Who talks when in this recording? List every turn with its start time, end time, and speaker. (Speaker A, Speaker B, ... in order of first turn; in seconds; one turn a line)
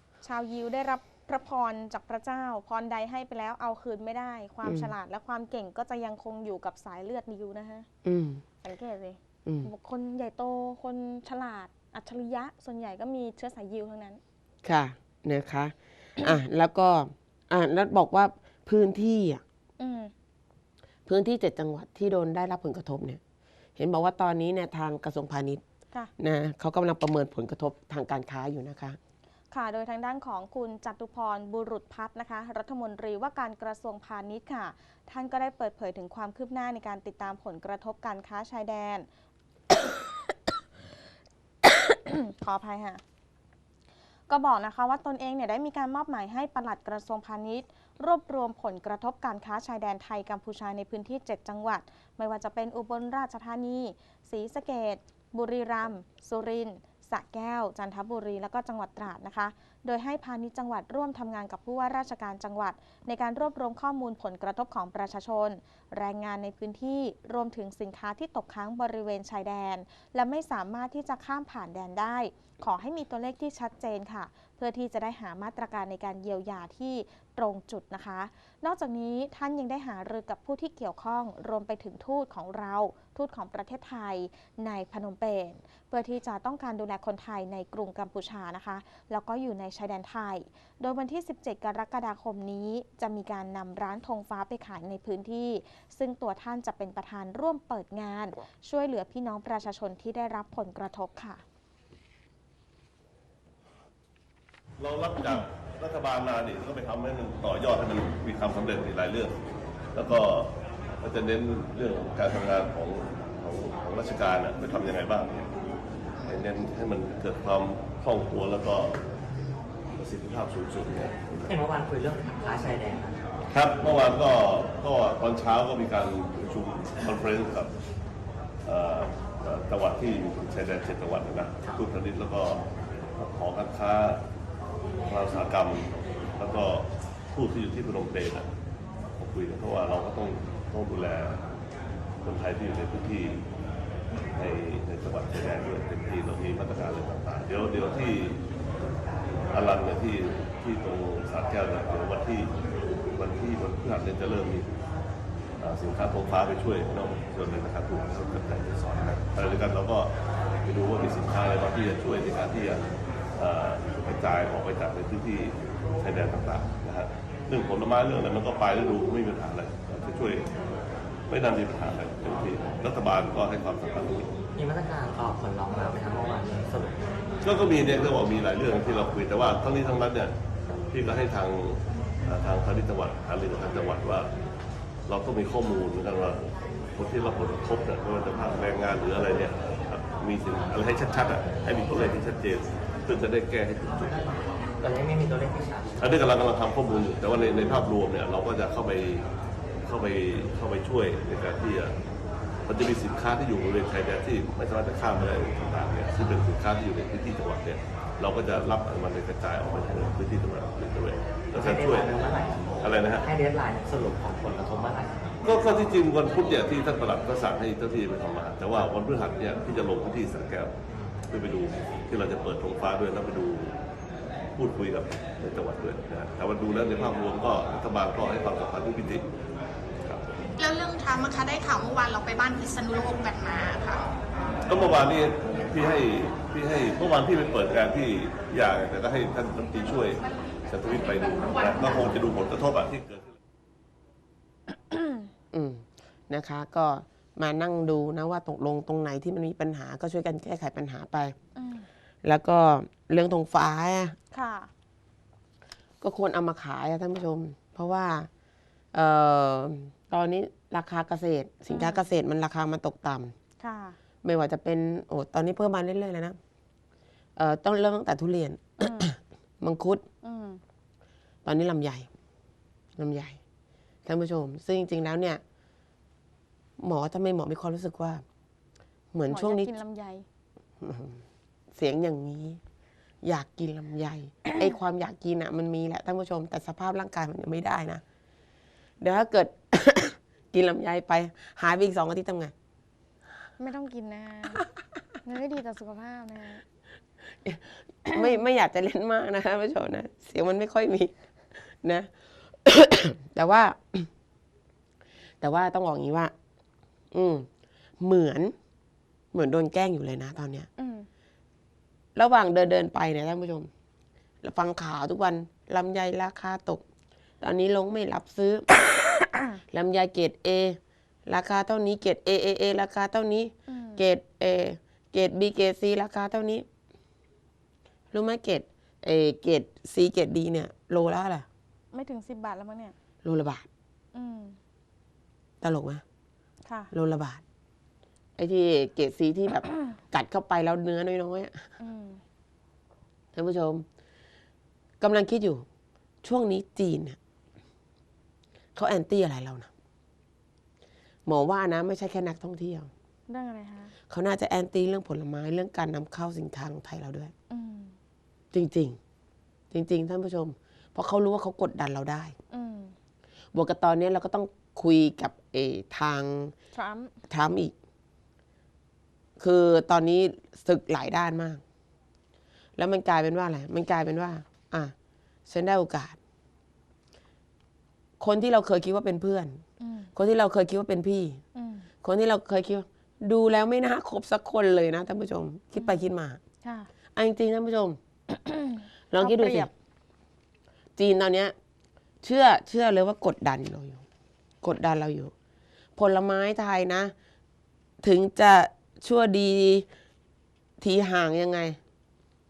Speaker A: 0.2-7.9
Speaker B: 4.6-4.9
Speaker B: 8.1-8.4
Speaker A: 8.6-14.2
Speaker B: 9.4-9.7
Speaker B: 14.6-19.4
Speaker A: 19.8-20.1
Speaker B: 21.1-23.2
Speaker B: 23.8-25.6
Speaker B: 26.2-29.0
Speaker A: 29.5-39.1
Speaker A: 41.6-43.0
Speaker A: 44.3-101.4
Speaker C: 104.8-109.4
Speaker C: 110.0-110.5
Speaker C: 111.0-115.5
Speaker C: 116.2-119.0
Speaker C: 120.0-121.5
Speaker D: 121.5-123.2
Speaker C: 123.5-127.7
Speaker C: 128.7-132.6
Speaker C: 133.2-134.2
Speaker C: 135.1-138.5
Speaker C: 139.2-141.4
Speaker C: 142.2-143.4
Speaker C: 144.4-148.4
Speaker C: 149.5-152.5
Speaker C: 153.2-154.8
Speaker C: 155.6-160.1
Speaker C: 160.7-170.5
Speaker C: 171.3-174.3
Speaker D: 174.6-177.0
Speaker C: 177.4-180.3
Speaker C: 180.9-184.3
Speaker C: 185.1-186.4
Speaker C: 186.9-194.2
Speaker D: 194.0-196.0
Speaker C: 196.0-199.2
Speaker C: 199.8-201.9
Speaker C: 202.7-212.1
Speaker D: 211.5-215.3
Speaker C: 212.8-213.2
Speaker C: 215.4-220.8
Speaker C: 221.3-223.7
Speaker C: 224.6-229.2
Speaker E: 230.6-234.0
Speaker C: 234.7-243.3
Speaker A: 244.7-245.3
Speaker B: 245.5-251.4
Speaker A: 251.6-251.9
Speaker B: 252.2-254.2
Speaker A: 254.3-254.7
Speaker B: 256.0-258.3
Speaker B: 258.9-263.3
Speaker A: 261.7-262.0
Speaker A: 263.6-264.0
Speaker B: 264.2-266.4
Speaker B: 267.4-270.1
Speaker A: 268.8-269.1
Speaker A: 270.2-270.6
Speaker B: 271.4-272.1
Speaker B: 273.0-273.4
Speaker B: 274.1-275.4
Speaker B: 276.8-278.2
Speaker B: 279.1-279.8
Speaker A: 279.3-280.2
Speaker B: 280.8-282.6
Speaker B: 283.2-288.0
Speaker B: 289.0-292.5
Speaker A: 293.6-294.7
Speaker A: 295.2-296.6
Speaker B: 297.4-304.1
Speaker A: 298.1-298.4
Speaker B: 305.4-306.3
Speaker B: 307.1-307.5
Speaker B: 308.0-308.6
Speaker B: 309.3-310.7
Speaker A: 310.8-311.1
Speaker B: 312.1-313.7
Speaker B: 314.4-316.9
Speaker B: 317.4-318.7
Speaker A: 319.4-319.6
Speaker B: 319.7-326.7
Speaker A: 323.7-324.0
Speaker B: 328.1-331.5
Speaker A: 331.9-332.9
Speaker B: 333.2-333.7
Speaker A: 334.1-334.6
Speaker B: 335.6-336.0
Speaker A: 336.7-336.9
Speaker B: 336.9-337.4
Speaker B: 338.4-341.7
Speaker A: 341.8-342.2
Speaker B: 343.3-343.9
Speaker B: 345.0-345.7
Speaker B: 346.2-347.2
Speaker B: 348.8-349.7
Speaker B: 351.2-352.9
Speaker A: 353.3-353.9
Speaker B: 354.1-357.3
Speaker A: 357.5-358.0
Speaker B: 358.5-359.0
Speaker B: 359.7-362.4
Speaker A: 362.5-362.9
Speaker B: 363.5-366.5
Speaker A: 366.7-367.2
Speaker B: 367.3-367.8
Speaker B: 369.4-371.6
Speaker B: 372.8-374.9
Speaker B: 375.5-376.2
Speaker B: 378.2-379.6
Speaker A: 379.8-380.1
Speaker B: 380.1-381.4
Speaker A: 381.6-381.9
Speaker B: 382.0-386.4
Speaker A: 386.6-386.9
Speaker B: 387.1-388.0
Speaker A: 388.3-389.7
Speaker B: 389.1-389.7
Speaker B: 391.0-391.6
Speaker B: 392.2-394.0
Speaker B: 394.6-395.3
Speaker B: 396.0-397.1
Speaker B: 398.0-399.9
Speaker B: 400.8-401.8